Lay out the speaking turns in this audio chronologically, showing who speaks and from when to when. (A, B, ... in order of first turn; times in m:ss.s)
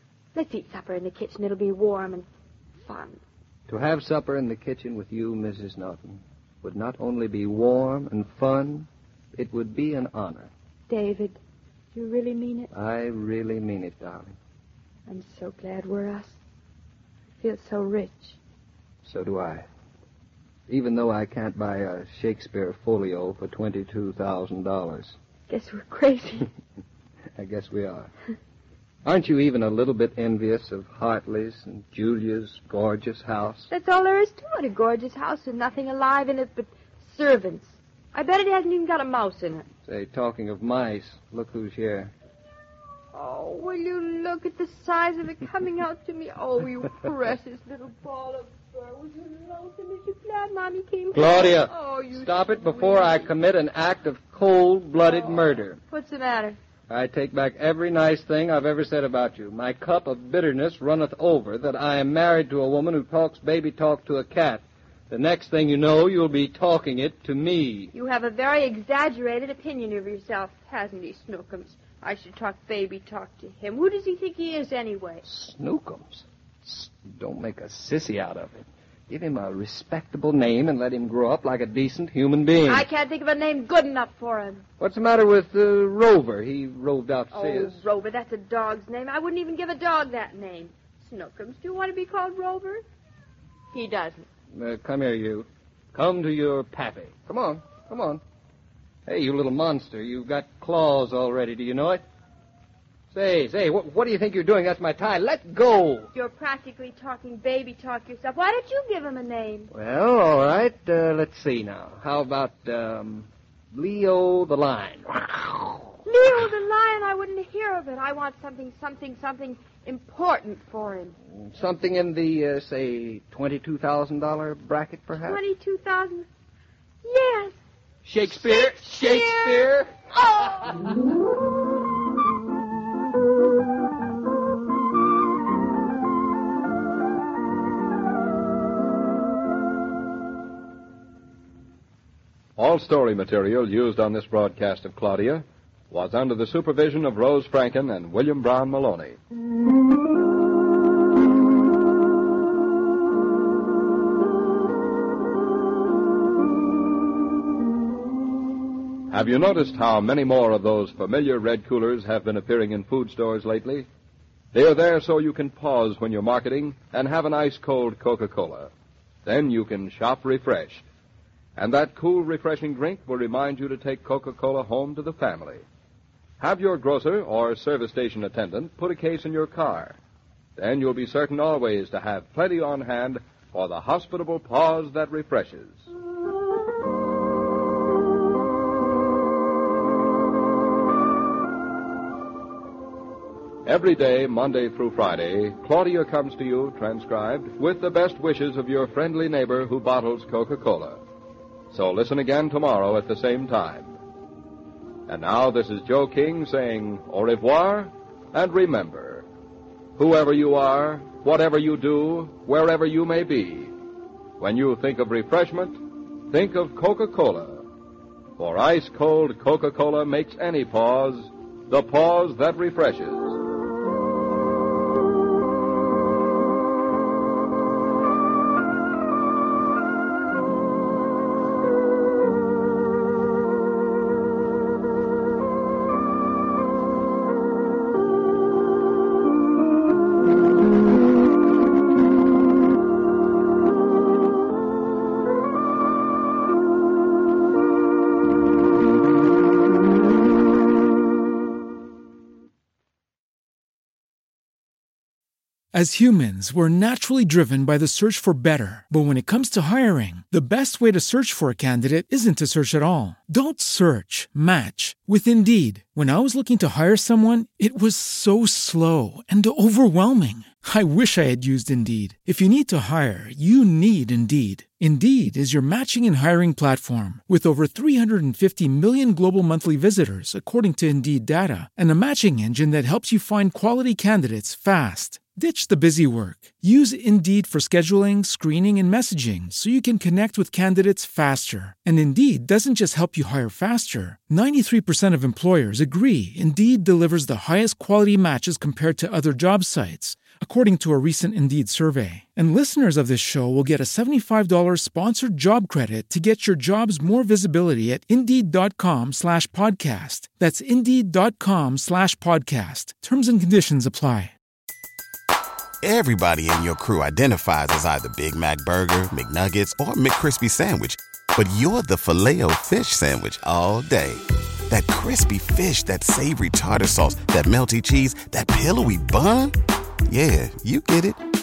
0:00.4-0:02.3 A
0:02.8-0:03.2 A
0:03.7-0:10.5 B
0:10.9-0:11.4 A
0:12.0-0:12.7 A
0:12.7-0:14.4 B
0:15.1-0:16.4 A
0:17.4-0:18.4 A
0:19.0-0:19.6 B
0:20.7-0:25.2 B
0:25.5-0:26.5 A
0:27.4-0:28.1 B
0:29.1-0:33.7 B
0:33.7-0:39.7 A
0:39.8-0:42.1 B
0:43.1-0:53.3 A
0:51.1-0:55.8 B
0:55.1-0:56.6 A
0:56.9-1:07.9 B
1:07.9-1:15.2 A
1:15.2-1:22.9 B
1:22.7-1:24.6 A
1:24.8-1:27.8 B
1:27.3-1:32.8 A
1:33.7-1:34.3 A
1:34.5-1:38.2 B
1:39.1-1:42.0 B
1:43.1-1:46.1 B
1:46.1-1:49.7 A
1:49.7-1:55.8 B
1:56.1-2:01.1 A
2:01.3-2:05.4 B
2:05.2-2:06.3 A
2:07.0-2:07.6 A
2:08.0-2:09.9 B
2:08.3-2:10.7 A
2:22.6-2:29.2 C
2:39.1-2:43.9 C
2:44.5-2:48.7 C
2:49.3-2:50.8 C
2:51.6-2:55.6 C
2:56.4-3:00.0 C
3:00.6-3:05.9 C
3:13.7-3:21.0 C
3:21.7-3:24.0 C
3:25.1-3:29.3 C
3:30.0-3:33.7 C
3:34.4-3:35.8 C
3:36.3-3:37.6 C
3:38.4-3:43.4 C
4:15.7-5:14.3 D
5:15.8-5:29.6 E
5:30.1-5:31.2 E